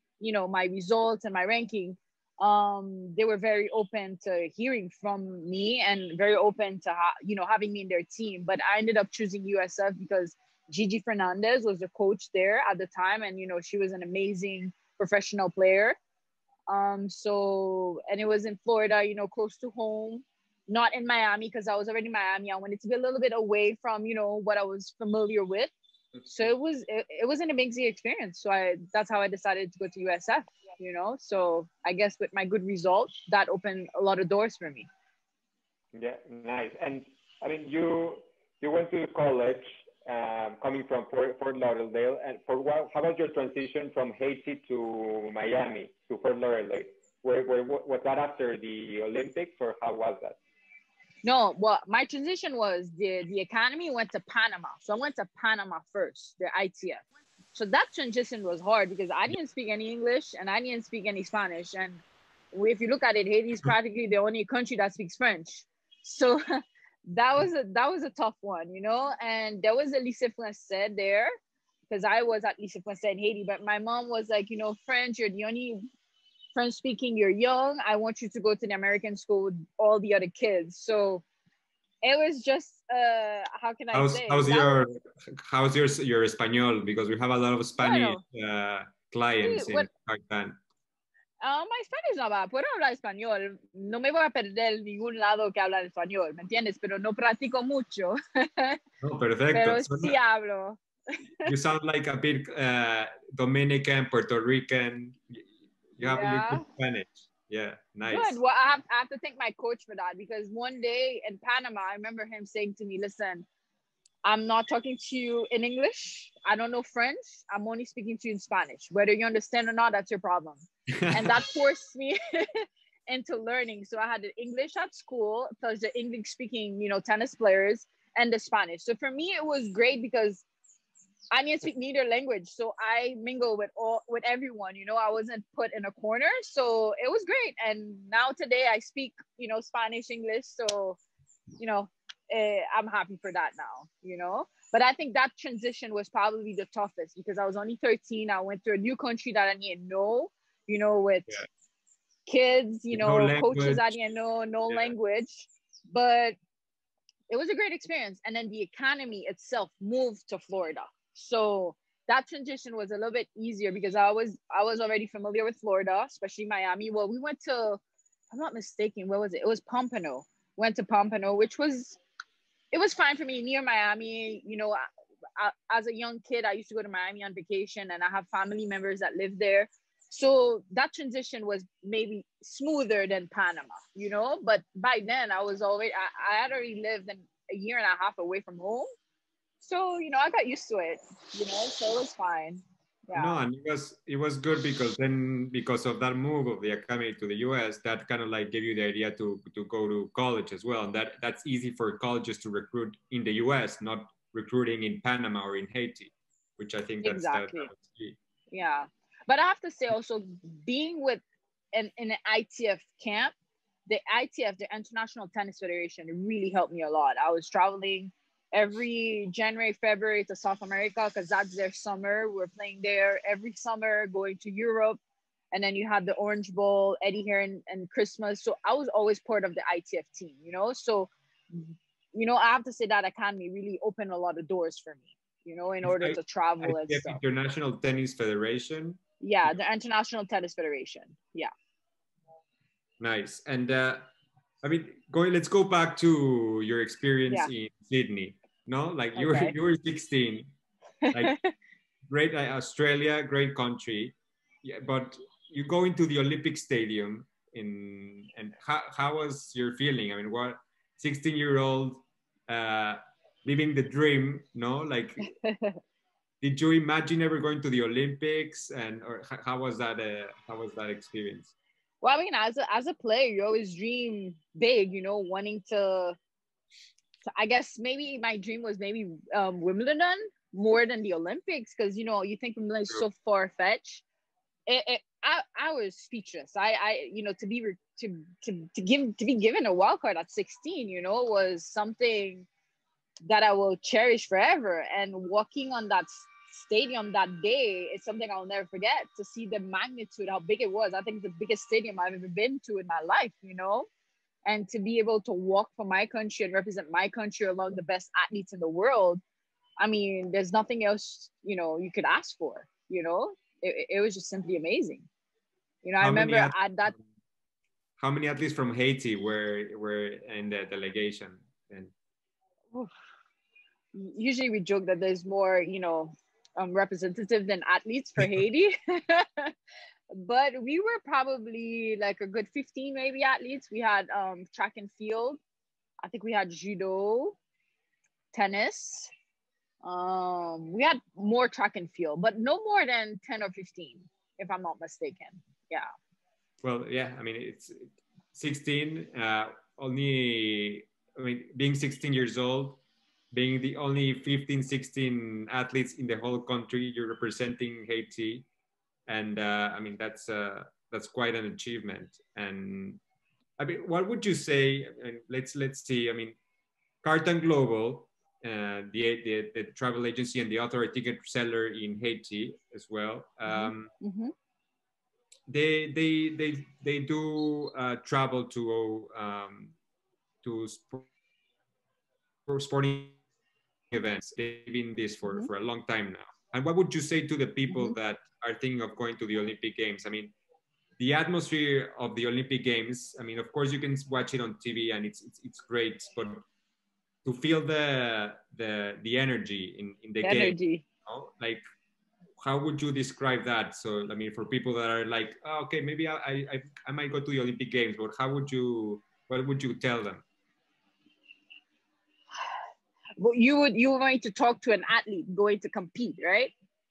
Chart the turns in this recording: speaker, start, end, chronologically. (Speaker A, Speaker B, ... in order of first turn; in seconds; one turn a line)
Speaker A: 0.2-16.0
Speaker A: 16.7-25.7
Speaker A: 26.2-34.9
Speaker B: 35.9-50.3
Speaker C: 36.0-38.0
Speaker C: 39.2-39.5
Speaker C: 40.6-41.5
Speaker C: 42.5-43.9
Speaker C: 45.7-46.1
Speaker A: 51.2-57.0
Speaker A: 57.5-66.4
Speaker A: 67.1-71.3
Speaker A: 71.9-75.8
Speaker A: 76.5-81.2
Speaker A: 82.0-84.8
Speaker C: 83.9-90.6
Speaker A: 87.8-88.2
Speaker A: 89.4-89.9
Speaker A: 91.4-98.8
Speaker C: 99.0-100.2
Speaker A: 99.5-101.5
Speaker C: 101.4-108.4
Speaker A: 106.0-106.6
Speaker A: 108.1-113.5
Speaker A: 114.2-130.4
Speaker C: 120.9-121.4
Speaker A: 131.3-141.0
Speaker A: 141.6-151.3
Speaker A: 152.2-156.3
Speaker C: 152.9-153.9
Speaker A: 157.3-172.0
Speaker A: 172.7-174.8
Speaker A: 175.4-188.9
Speaker A: 189.6-193.4
Speaker C: 193.1-208.2
Speaker A: 207.0-207.7
Speaker A: 208.5-211.2
Speaker A: 211.7-213.3
Speaker A: 213.9-225.0
Speaker A: 225.5-237.2
Speaker C: 235.8-239.0
Speaker A: 239.2-241.5
Speaker C: 243.0-244.1
Speaker C: 244.6-250.5
Speaker A: 249.2-249.5
Speaker A: 251.1-251.5
Speaker C: 252.1-265.3
Speaker A: 265.2-265.8
Speaker C: 266.4-271.5
Speaker A: 272.0-276.1
Speaker A: 277.3-284.0
Speaker A: 284.7-292.5
Speaker A: 293.2-303.9
Speaker A: 304.4-309.2
Speaker A: 309.8-315.1
Speaker A: 315.8-316.9
Speaker C: 316.0-317.0
Speaker C: 318.0-321.9
Speaker A: 323.9-329.5
Speaker A: 330.1-335.4
Speaker A: 336.0-337.4
Speaker A: 338.3-339.1
Speaker A: 339.8-345.9
Speaker C: 346.6-352.8
Speaker C: 353.3-358.5
Speaker C: 359.1-363.0
Speaker C: 363.6-366.4
Speaker C: 367.0-373.9
Speaker A: 373.4-374.3
Speaker C: 375.5-379.7
Speaker C: 380.4-381.1
Speaker C: 382.5-383.2
Speaker C: 383.9-390.3
Speaker A: 387.7-387.9
Speaker C: 391.0-396.4
Speaker C: 397.2-401.6
Speaker A: 400.2-400.8
Speaker C: 402.4-410.2
Speaker A: 413.2-416.5